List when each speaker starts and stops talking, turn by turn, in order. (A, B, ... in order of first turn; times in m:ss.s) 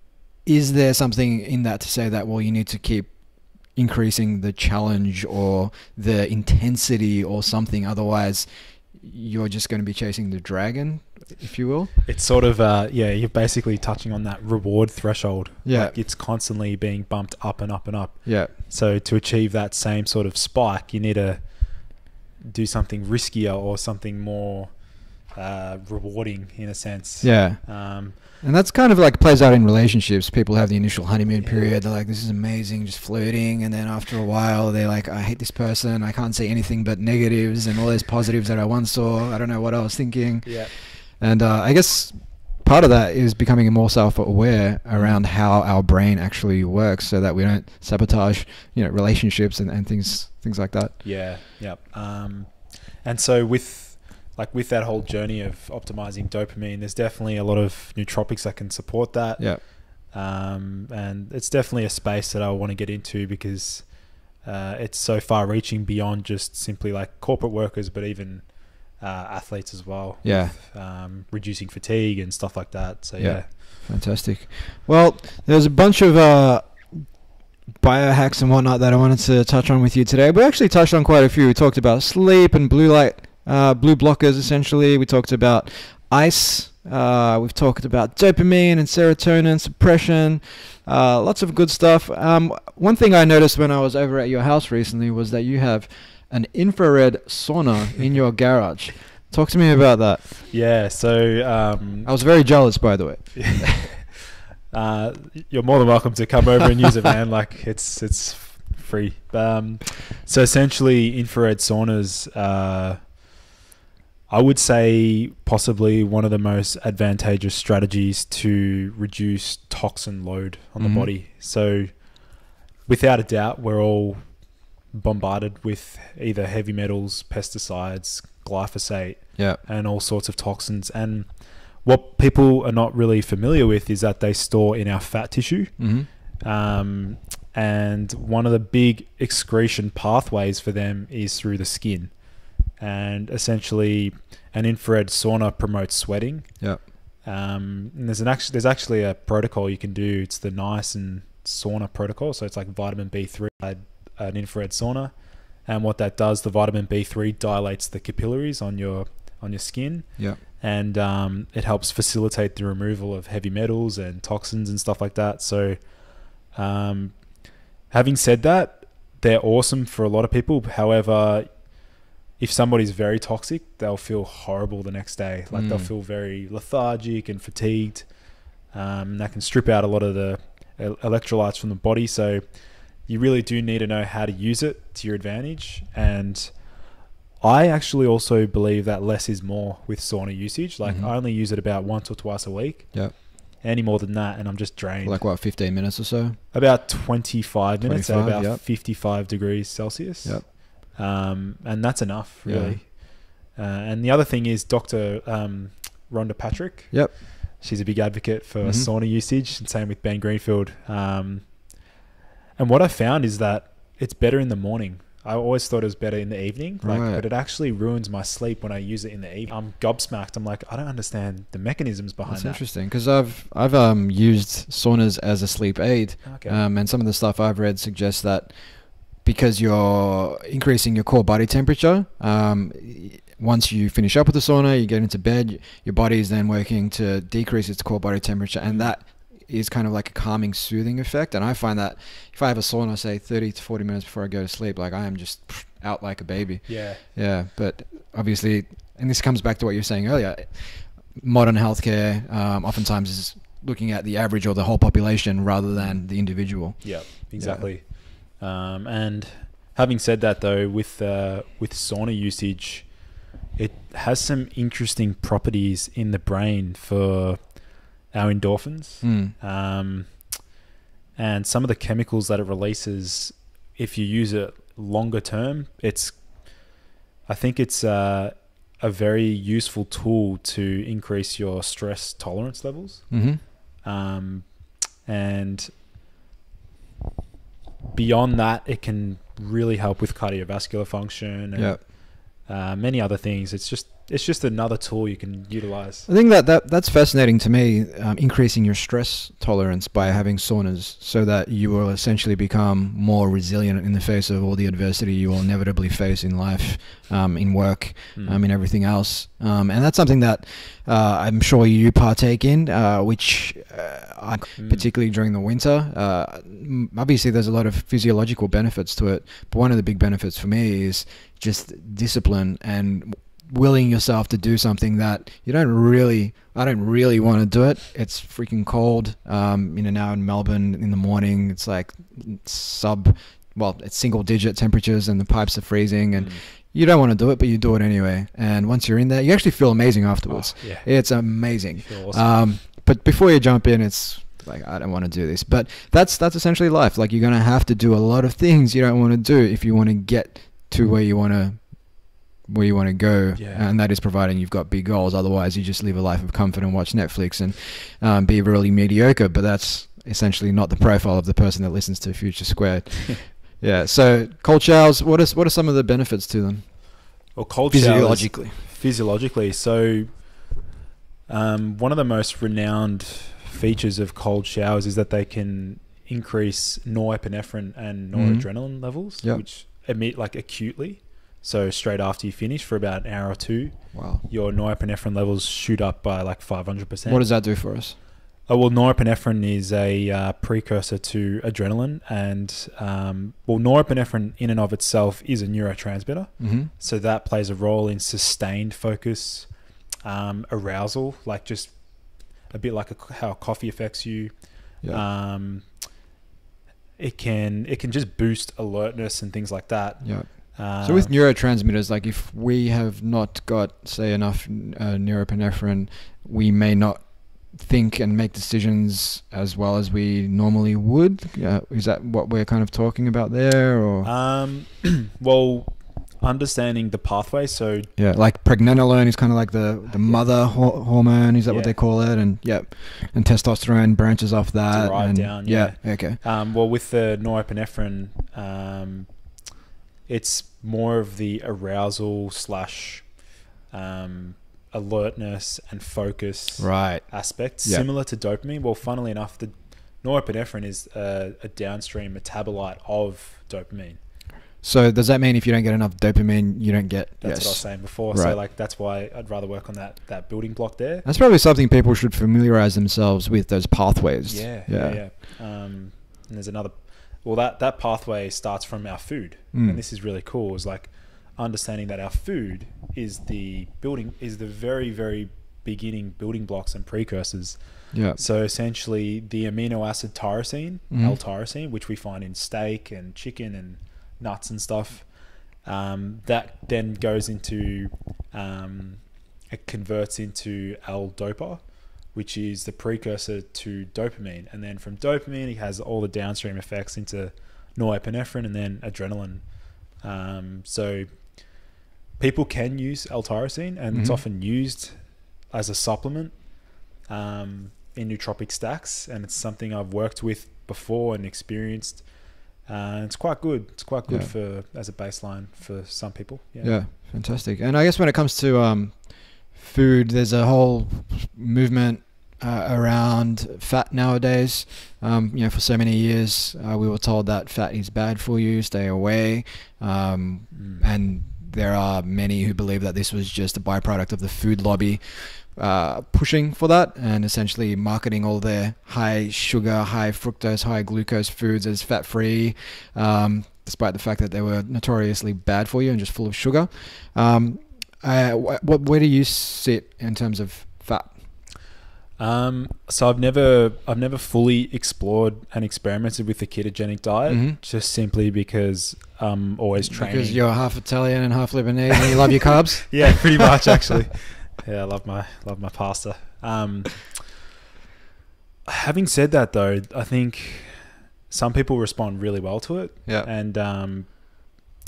0:00.4-0:11.9 A
0:12.0-0:28.2 B
0:15.6-0:16.0 A
0:18.2-0:18.5 A
0:27.2-0:51.0 A
0:31.4-0:31.7 B
0:40.4-0:40.7 B
0:44.9-0:45.2 B
0:51.0-1:13.5 B
1:10.2-1:10.6 A
1:13.2-1:17.1 A
1:17.7-1:40.3 A
1:40.5-1:42.1 B
1:42.0-1:43.9 A
1:43.4-1:53.2 B
1:54.3-2:26.7 B
2:00.8-2:01.1 A
2:15.8-2:16.1 A
2:27.2-3:15.2 B
2:55.5-2:55.9 A
3:10.8-3:11.1 A
3:15.0-3:16.4 A
3:16.5-3:31.8 B
3:17.8-3:18.6 A
3:20.2-3:20.5 A
3:22.4-3:22.8 A
3:28.6-3:28.9 A
3:32.6-3:42.6 B
3:36.8-3:37.2 A
3:42.2-4:17.7 A
3:46.2-3:46.6 B
3:58.6-3:58.9 B
4:06.7-4:07.0 B
4:15.7-4:16.0 B
4:16.8-4:30.5 B
4:29.0-4:29.3 A
4:31.2-4:36.7 B
4:37.2-4:45.7 B
4:43.1-4:43.4 A
4:47.9-4:56.1 B
4:51.6-4:51.8 A
4:56.1-6:08.6 A
5:00.0-5:00.2 B
5:08.2-5:08.4 B
5:14.6-5:14.8 B
5:36.1-5:36.4 B
5:40.3-5:42.3 B
5:53.4-5:53.7 B
6:07.3-6:10.6 B
6:11.3-6:27.3 B
6:18.1-6:19.4 A
6:23.9-6:24.2 A
6:27.1-6:28.0 A
6:28.4-6:45.9 B
6:36.4-6:36.7 A
6:47.0-6:51.1 B
6:50.0-7:04.1 A
7:04.0-7:07.9 B
7:08.0-7:16.2 A
7:11.5-7:11.7 B
7:14.7-7:19.4 B
7:20.0-7:34.0 B
7:26.6-7:27.8 A
7:34.6-7:38.4 A
7:37.2-7:41.0 B
7:41.0-7:45.0 A
7:44.3-8:36.8 B
7:49.5-7:49.8 A
7:57.9-7:58.2 A
8:00.9-8:01.2 A
8:23.9-8:24.2 A
8:34.1-8:34.3 A
8:36.6-9:11.2 A
8:50.5-8:50.8 B
9:12.2-9:20.4 B
9:17.3-9:17.6 A
9:19.9-9:23.7 A
9:22.9-9:27.4 B
9:28.6-9:34.3 B